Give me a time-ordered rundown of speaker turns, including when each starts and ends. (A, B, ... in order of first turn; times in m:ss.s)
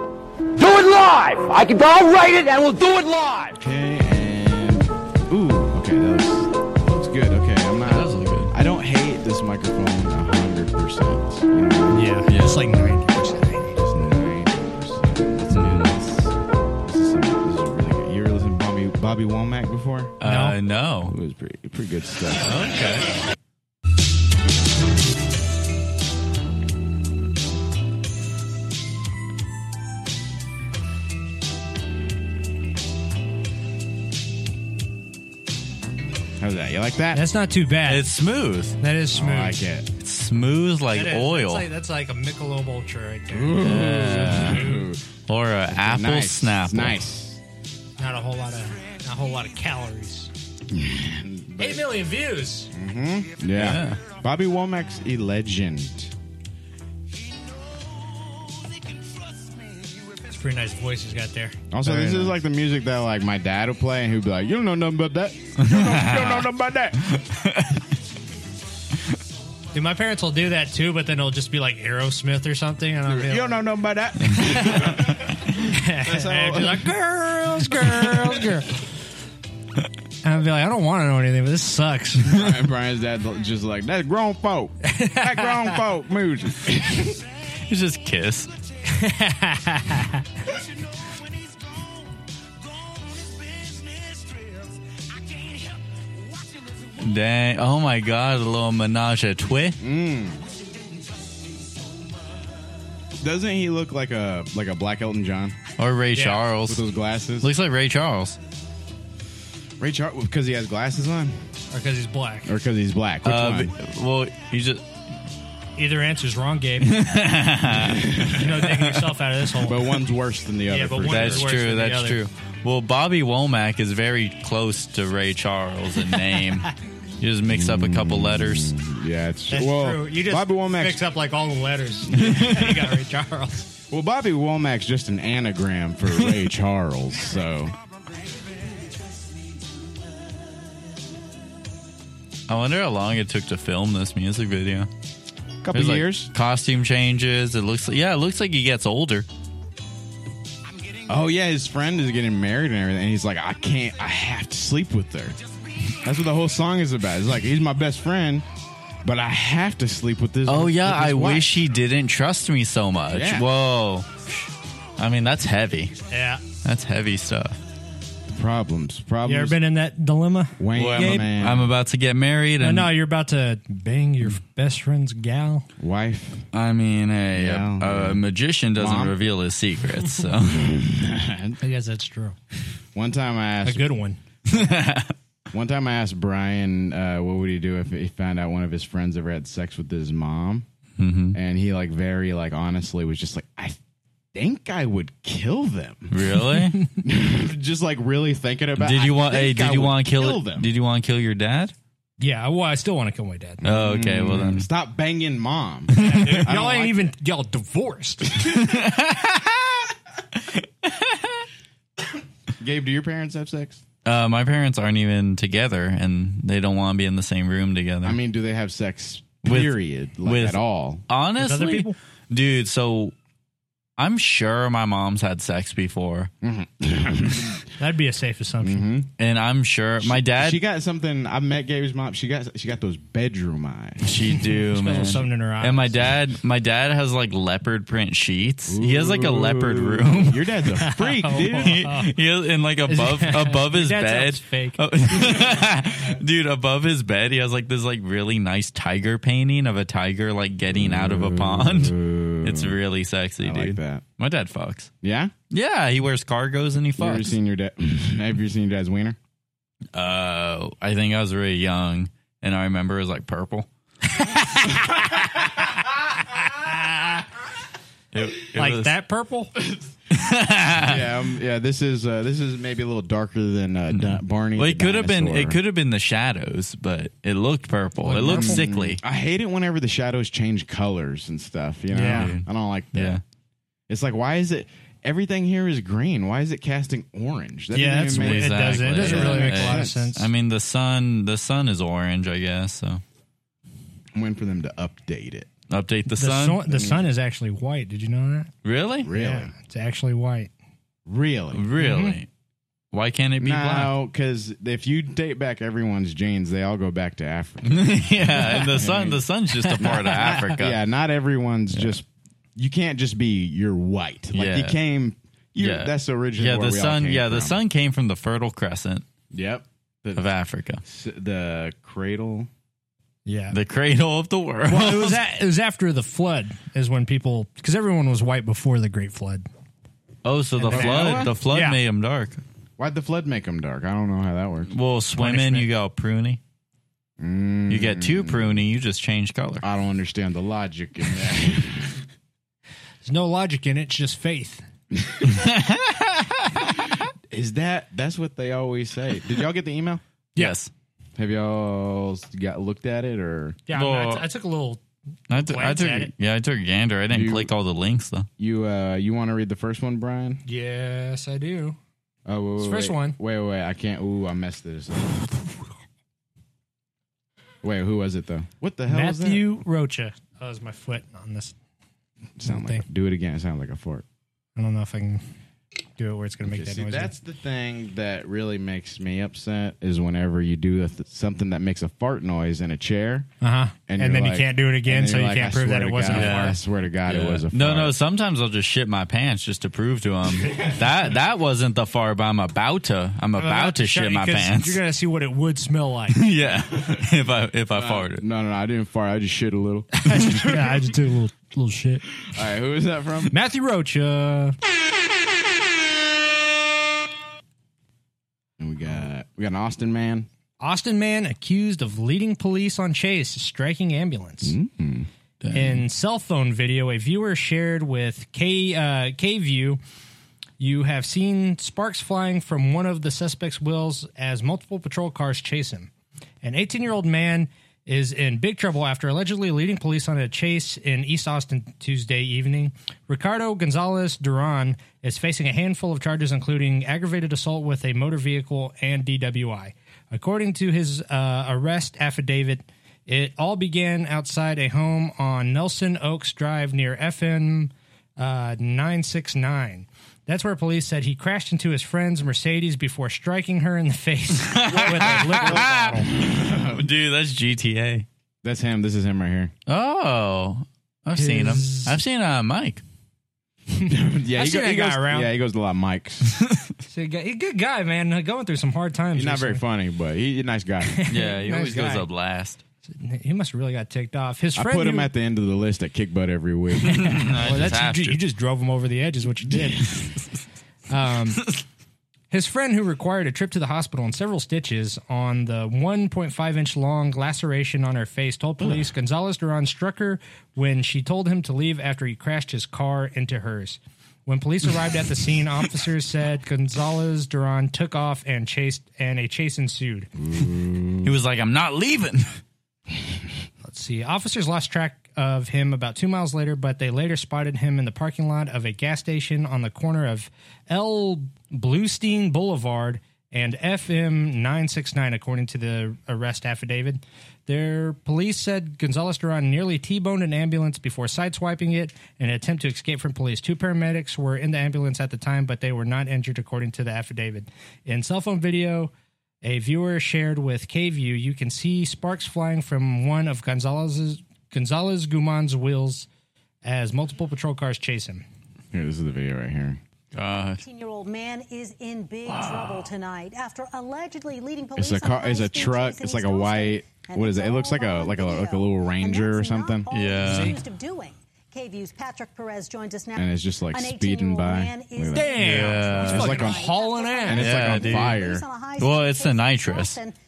0:00.6-0:03.6 A
0:03.6-0:12.3 B
0:07.9-0:08.5 C
0:11.9-0:13.8 D
0:12.3-0:12.6 C
0:13.8-0:20.2 B
0:15.5-0:15.9 C
0:20.2-0:21.2 C
0:20.2-0:20.6 D
0:21.1-0:22.6 B
0:22.4-0:23.1 C
0:36.4-0:37.2 B
0:37.1-0:38.0 D
0:37.9-0:38.8 C
0:38.8-0:39.6 D
0:39.1-0:39.9 B
0:40.0-0:41.7 C
0:40.9-0:43.7 D
0:43.3-0:45.0 B
0:43.6-0:44.6 C
0:45.3-0:47.0 C
0:45.7-0:47.4 B
0:48.0-0:50.3 D
0:50.7-0:52.0 B
0:51.6-0:52.7 D
0:52.7-0:56.1 B
0:53.6-0:54.0 C
1:00.0-1:02.3 D
1:01.7-1:07.0 B
1:05.6-1:06.4 C
1:07.1-1:07.8 C
1:09.7-1:13.6 D
1:13.1-1:16.9 B
1:14.4-1:15.1 D
1:15.6-1:18.8 D
1:17.7-1:18.4 B
1:20.2-1:22.4 D
1:22.3-1:27.2 B
1:24.9-1:25.7 D
1:27.7-1:28.5 C
1:28.9-1:30.2 D
1:37.0-1:39.8 C
1:39.8-1:40.4 B
1:43.2-1:45.6 B
1:45.8-1:46.8 C
1:46.2-1:46.4 D
1:46.6-1:47.5 B
1:47.4-1:48.4 C
1:49.8-1:51.4 B
1:51.7-1:52.5 D
1:52.5-1:53.7 B
1:53.2-1:54.8 C
1:55.8-1:57.0 D
1:56.8-1:58.2 C
1:57.7-1:58.9 B
1:58.3-2:00.0 D
1:59.6-2:01.5 B
2:00.7-2:02.2 D
2:01.1-2:06.7 C
2:07.2-2:08.7 C
2:07.5-2:11.0 B
2:09.5-2:13.7 D
2:13.9-2:17.7 B
2:22.5-2:24.9 C
2:25.6-2:26.3 B
2:25.7-2:29.3 C
2:31.1-2:35.4 B
2:36.0-2:38.4 B
2:39.0-2:41.6 B
2:40.5-2:44.4 C
2:43.1-2:43.5 B
2:45.0-2:46.0 C
2:46.1-2:46.4 D
2:46.6-2:47.6 C
2:48.3-2:49.6 B
2:49.2-2:51.3 D
2:50.6-2:51.7 B
2:50.8-2:52.9 C
2:52.6-2:55.7 D
2:55.8-2:56.5 B
2:56.5-3:00.7 C
2:57.4-2:58.2 B
2:58.8-2:59.2 B
3:00.5-3:01.6 B
3:01.6-3:02.4 D
3:03.0-3:04.0 B
3:03.6-3:04.2 D
3:04.5-3:05.1 C
3:05.5-3:10.7 B
3:11.0-3:11.4 C
3:11.3-3:13.8 B
3:14.3-3:16.2 B
3:16.1-3:16.8 C
3:17.0-3:20.7 B
3:18.8-3:21.7 C
3:22.2-3:23.6 D
3:23.6-3:27.0 B
3:23.6-3:24.7 C
3:26.0-3:26.4 C
3:26.0-3:28.6 D
3:28.4-3:29.8 C
3:30.8-3:31.2 C
3:32.6-3:33.8 B
3:34.0-3:38.2 C
3:38.0-3:41.0 B
3:39.4-3:40.6 C
3:41.1-3:43.1 C
3:41.4-3:42.0 D
3:44.0-3:46.3 C
3:46.4-3:47.6 B
3:47.8-3:48.9 D
3:48.6-3:49.1 B
3:49.2-3:50.6 C
3:50.0-3:54.1 B
3:54.0-4:00.4 C
3:54.6-3:56.0 D
3:58.7-4:01.8 B
4:00.8-4:02.1 D
4:01.5-4:14.9 C
4:02.9-4:04.9 D
4:10.7-4:12.8 B
4:13.4-4:14.0 B
4:15.0-4:15.3 B
4:15.5-4:17.3 C
4:17.0-4:19.2 B
4:19.9-4:23.7 C
4:26.5-4:27.2 D
4:28.1-4:29.0 C
4:28.6-4:29.5 D
4:30.1-4:31.1 C
4:30.8-4:35.6 B
4:33.9-4:39.0 C
4:38.0-4:38.6 D
4:38.2-4:43.2 B
4:41.9-4:42.3 D
4:42.0-4:43.2 C
4:43.9-4:50.1 B
4:47.7-4:50.3 D
4:48.1-4:53.0 C
4:54.2-4:55.5 B
4:55.7-4:56.7 C
4:56.2-4:58.5 D
4:56.7-4:57.0 B
4:58.6-4:59.1 C
4:59.0-4:59.5 B
4:59.1-5:00.5 D
5:01.1-5:01.6 B
5:01.5-5:02.3 C
5:01.8-5:02.2 D
5:02.9-5:04.0 C
5:03.4-5:09.2 B
5:07.7-5:10.8 C
5:09.8-5:17.6 B
5:14.3-5:14.8 C
5:15.6-5:19.0 C
5:19.3-5:20.3 B
5:20.2-5:20.8 C
5:20.8-5:22.5 B
5:23.3-5:23.6 D
5:23.5-5:25.2 C
5:24.7-5:29.5 D
5:30.2-5:32.4 C
5:30.6-5:31.8 D
5:30.7-5:31.3 B
5:32.8-5:34.7 B
5:34.7-5:36.4 C
5:35.2-5:35.7 D
5:37.2-5:38.6 B
5:37.7-5:39.6 C
5:39.6-5:42.0 B
5:43.0-5:44.6 D
5:45.3-5:46.5 C
5:47.3-5:50.0 B
5:50.4-5:50.7 C
5:51.2-5:53.6 B
5:53.7-5:54.8 D
5:53.7-5:54.2 C
5:55.3-5:58.3 C
5:55.5-5:56.1 D
5:57.1-5:57.5 B
5:58.4-6:00.4 B
6:00.5-6:01.8 D
6:02.3-6:05.3 B
6:02.6-6:03.2 D
6:07.6-6:09.4 B
6:08.9-6:11.6 D
6:12.4-6:14.0 B
6:12.4-6:12.8 D
6:14.6-6:15.2 D
6:16.0-6:17.1 D
6:16.4-6:23.3 B
6:23.4-6:26.6 D
6:23.9-6:28.0 B
6:26.1-6:34.8 C
6:33.4-6:36.2 D
6:36.1-6:38.2 C
6:37.8-6:40.8 B
6:40.0-6:42.1 D
6:42.3-6:43.4 B
6:43.3-6:44.6 D
6:48.6-6:50.3 B
6:50.6-6:54.6 D
6:54.4-6:55.1 B
6:55.4-6:55.8 C
6:55.5-6:59.8 D
7:00.6-7:05.9 D
7:06.4-7:36.1 D
7:34.4-7:38.1 C
7:34.7-7:36.9 B
7:38.4-7:39.5 B
7:39.7-7:42.8 C
7:41.2-7:41.9 D
7:43.8-7:45.3 D
7:43.9-7:46.4 B
7:46.9-7:49.6 D
7:49.1-7:51.0 B
7:50.9-7:52.0 D
7:51.1-7:52.6 C
7:52.9-7:55.1 D
7:54.6-7:57.3 B
7:56.9-8:00.0 D
7:57.0-7:58.2 C
8:00.9-8:01.5 D
8:02.3-8:20.1 D
8:20.2-8:21.1 B
8:21.0-8:22.3 C
8:23.6-8:48.9 D
8:49.4-8:56.1 D
8:56.6-8:58.2 D
8:58.7-8:59.8 B
9:00.1-9:00.6 C
9:00.6-9:20.2 E
9:04.8-9:09.9 B
9:09.9-9:10.6 C
9:10.2-9:10.6 D
9:13.1-9:18.4 B
9:15.1-9:17.6 D
9:15.4-9:16.5 C
9:17.3-9:18.2 C
9:18.8-9:20.0 C